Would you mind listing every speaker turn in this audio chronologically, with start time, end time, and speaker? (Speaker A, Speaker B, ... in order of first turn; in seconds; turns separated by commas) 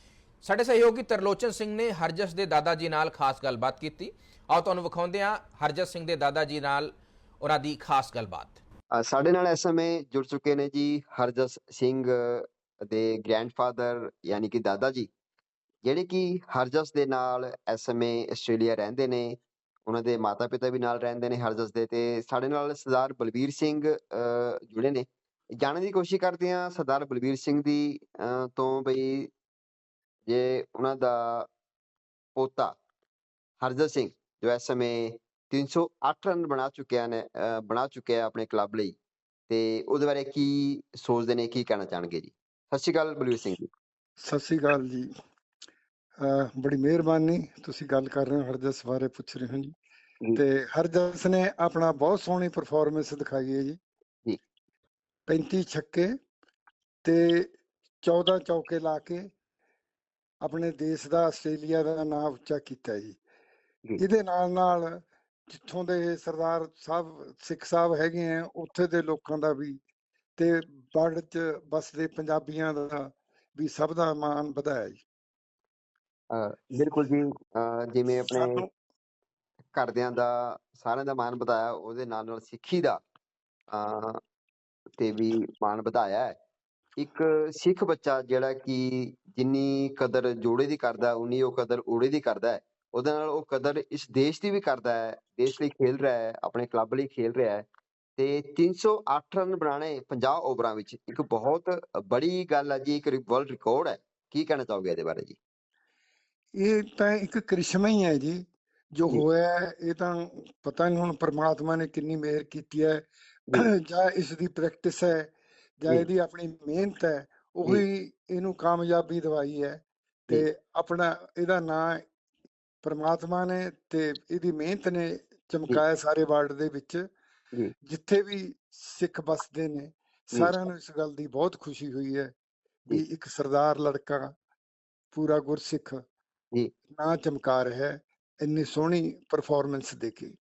Speaker A: 0.4-8.6, Speaker B: 8.9-15.1, Speaker B: 15.8-25.1, Speaker B: 25.6-29.3, Speaker B: 30.3-31.5, Speaker B: 32.4-32.8, Speaker B: 33.6-39.0, Speaker B: 39.5-43.7, Speaker C: 44.2-45.1, Speaker C: 46.2-49.7, Speaker C: 50.4-53.8, Speaker C: 55.3-56.1, Speaker C: 57.0-57.5, Speaker C: 58.0-59.3, Speaker C: 60.4-63.2, Speaker C: 64.0-69.8, Speaker C: 70.4-75.0, Speaker B: 76.3-78.7, Speaker C: 78.3-78.7, Speaker B: 79.7-83.0, Speaker B: 83.7-84.2, Speaker B: 85.0-86.3, Speaker B: 87.0-105.4, Speaker C: 106.6-122.0, Speaker C: 122.8-127.0, Speaker C: 127.8-132.3, Speaker C: 132.9-134.3, Speaker C: 135.1-136.0, Speaker C: 136.9-140.4